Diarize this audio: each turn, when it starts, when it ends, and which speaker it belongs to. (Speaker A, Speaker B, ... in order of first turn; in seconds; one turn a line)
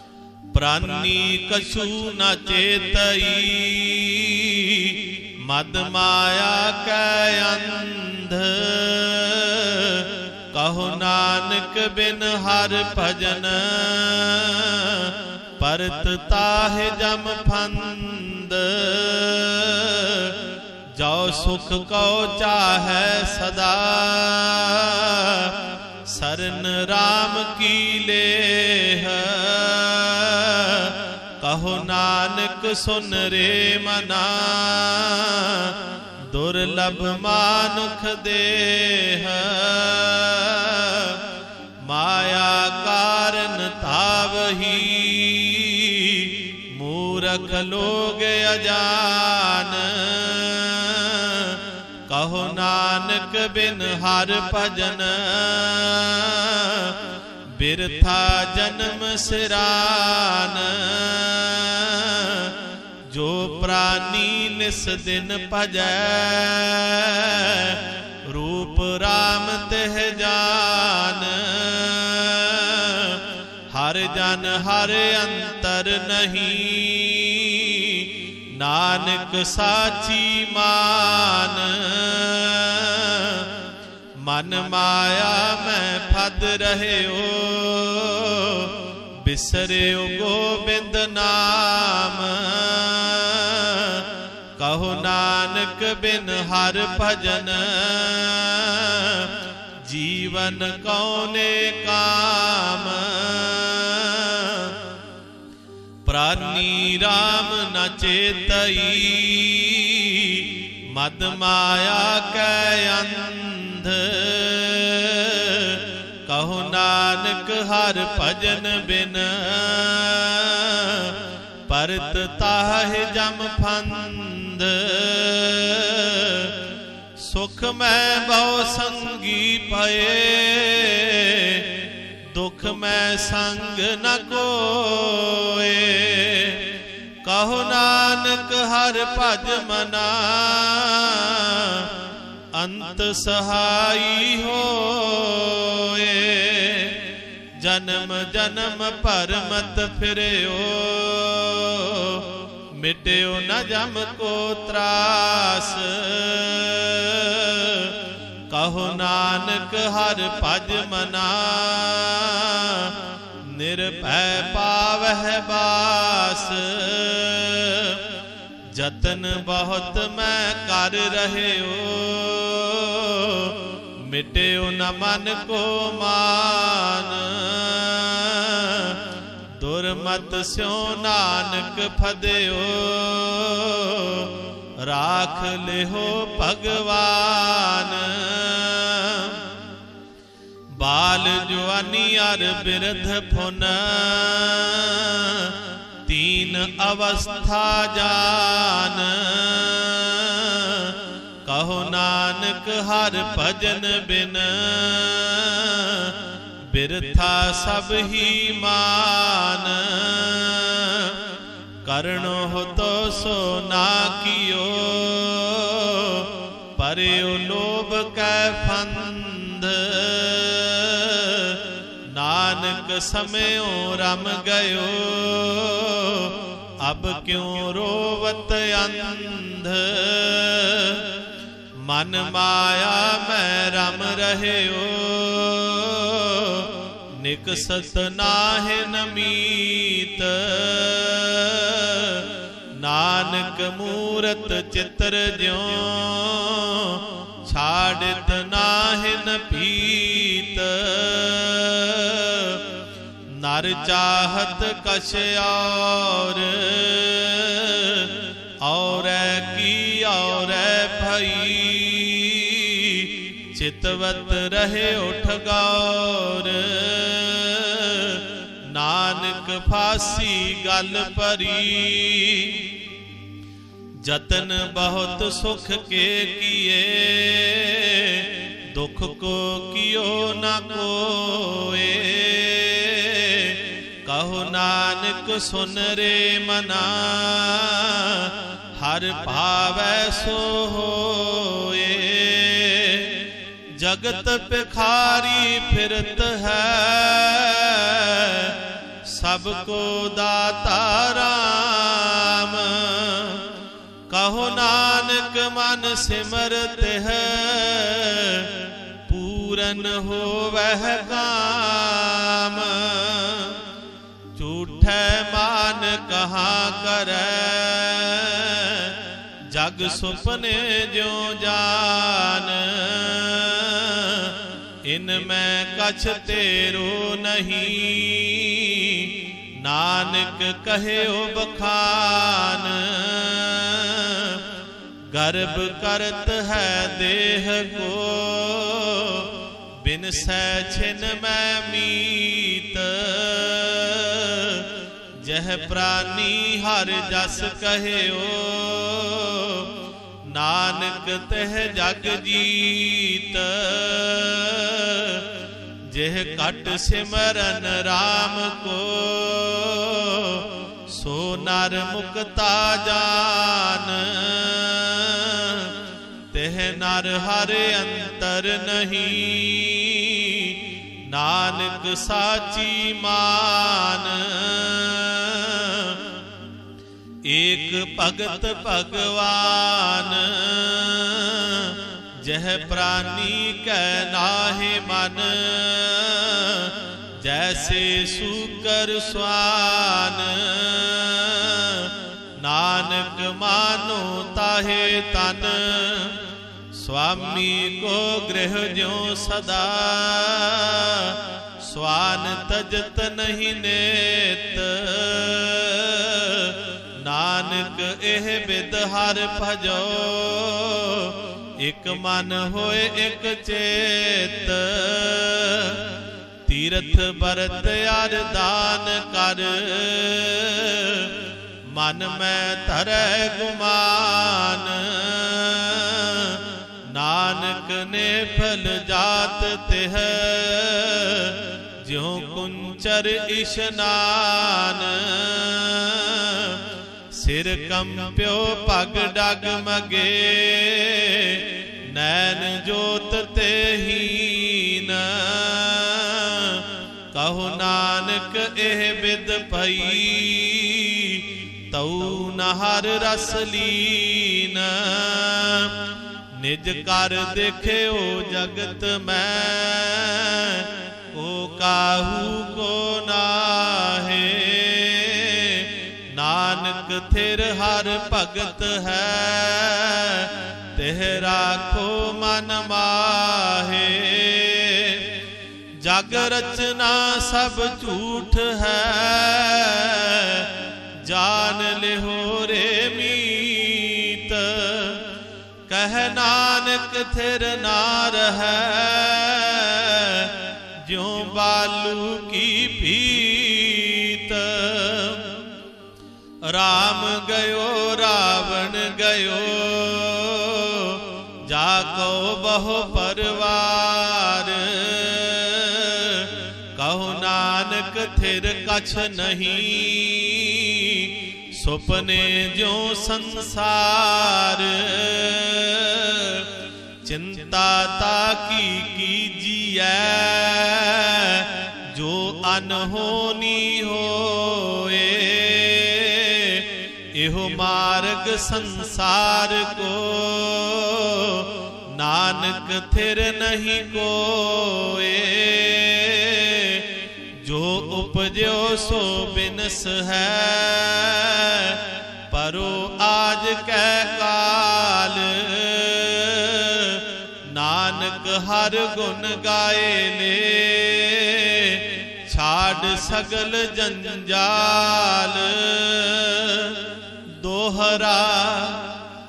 Speaker A: 0.5-20.4
Speaker A: 20.9-41.2
Speaker A: 41.8-57.0
Speaker A: 57.5-62.6
Speaker A: 63.1-83.5
Speaker A: 84.2-104.8
Speaker A: 106.1-126.6
Speaker A: 127.2-136.7
Speaker A: 137.2-141.9
Speaker A: 142.5-147.1
Speaker A: 147.6-158.0
Speaker A: 158.5-168.0
Speaker A: 168.7-179.0
Speaker A: 179.6-189.4
Speaker A: 190.7-211.2
Speaker A: 211.8-231.2
Speaker A: 231.8-252.7
Speaker A: 253.3-272.8
Speaker A: 274.0-303.5
Speaker A: 304.1-313.6
Speaker A: 314.4-334.4
Speaker A: 335.1-344.7
Speaker A: 345.2-349.7
Speaker A: 350.3-355.3
Speaker A: 355.9-365.8
Speaker A: 366.3-376.0
Speaker A: 377.2-396.2
Speaker A: 396.7-455.8
Speaker A: 456.3-475.1
Speaker A: 475.8-485.1
Speaker A: 485.7-495.4
Speaker A: 496.4-516.5
Speaker A: 517.0-536.9
Speaker A: 537.4-559.0